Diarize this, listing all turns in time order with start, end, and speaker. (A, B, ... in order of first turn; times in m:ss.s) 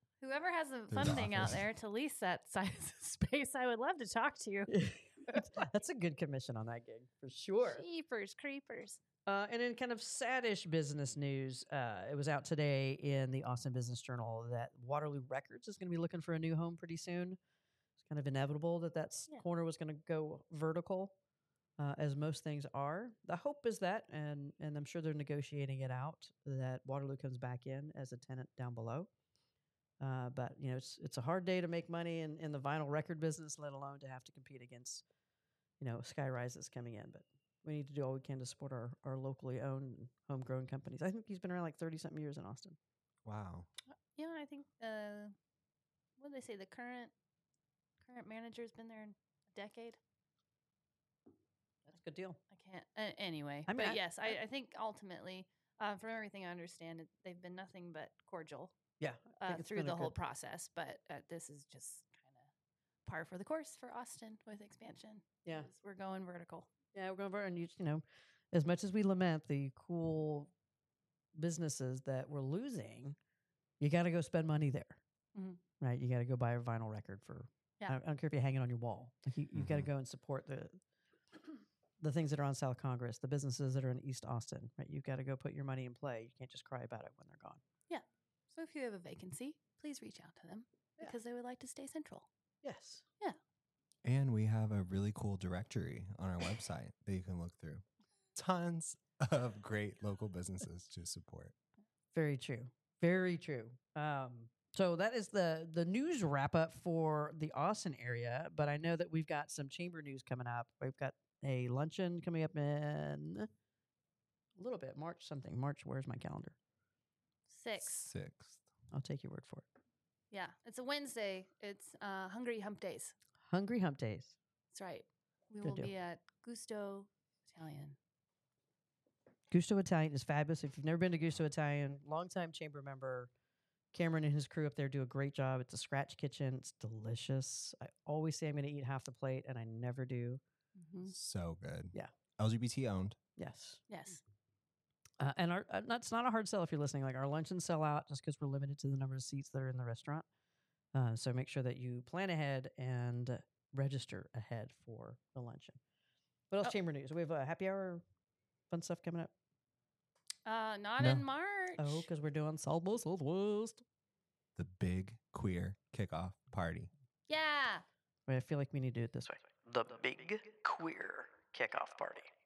0:00.2-0:04.7 A
0:00.9-0:01.6 B
0:04.7-0:07.8 C
0:07.6-0:09.0 A
0:09.2-0:17.4 C
0:18.0-0:21.1 C
0:21.8-0:29.1 C
0:30.0-0:35.0 C
0:35.8-0:42.8 C
0:43.2-0:43.7 B
0:44.1-0:45.3 A
0:46.2-0:47.1 A
0:48.0-0:50.0 A
0:51.8-0:52.4 C
0:52.5-0:58.7 A
0:53.7-0:54.3 C
0:59.0-1:00.1 C
0:59.4-1:02.5 A
1:03.0-1:06.7 A
1:06.9-1:10.5 C
1:11.3-1:13.2 C
1:13.8-1:15.0 C
1:15.3-1:15.6 A
1:15.8-1:20.8 C
1:19.5-1:19.9 B
1:22.0-1:27.6 C
1:27.9-1:32.3 A
1:32.6-1:33.0 C
1:34.0-1:41.5 B
1:42.1-1:53.5 C
1:54.6-1:56.6 C
1:57.5-1:58.1 A
1:57.8-1:58.6 B
1:58.9-1:59.7 C
2:00.3-2:03.1 A
2:03.4-2:04.4 C
2:04.7-2:08.0 A
2:05.6-2:05.9 C
2:09.5-2:13.3 C
2:13.9-2:20.4 C
2:20.8-2:21.1 A
2:21.1-2:23.2 B
2:23.4-2:23.8 C
2:23.9-2:24.2 A
2:25.2-2:30.2 C
2:30.9-2:35.8 C
2:36.5-2:38.0 C
2:38.7-2:39.3 C
2:40.4-2:42.1 A
2:41.0-2:41.3 B
2:41.8-2:43.8 C
2:44.6-2:46.9 B
2:47.3-2:47.8 A
2:48.3-2:52.3 C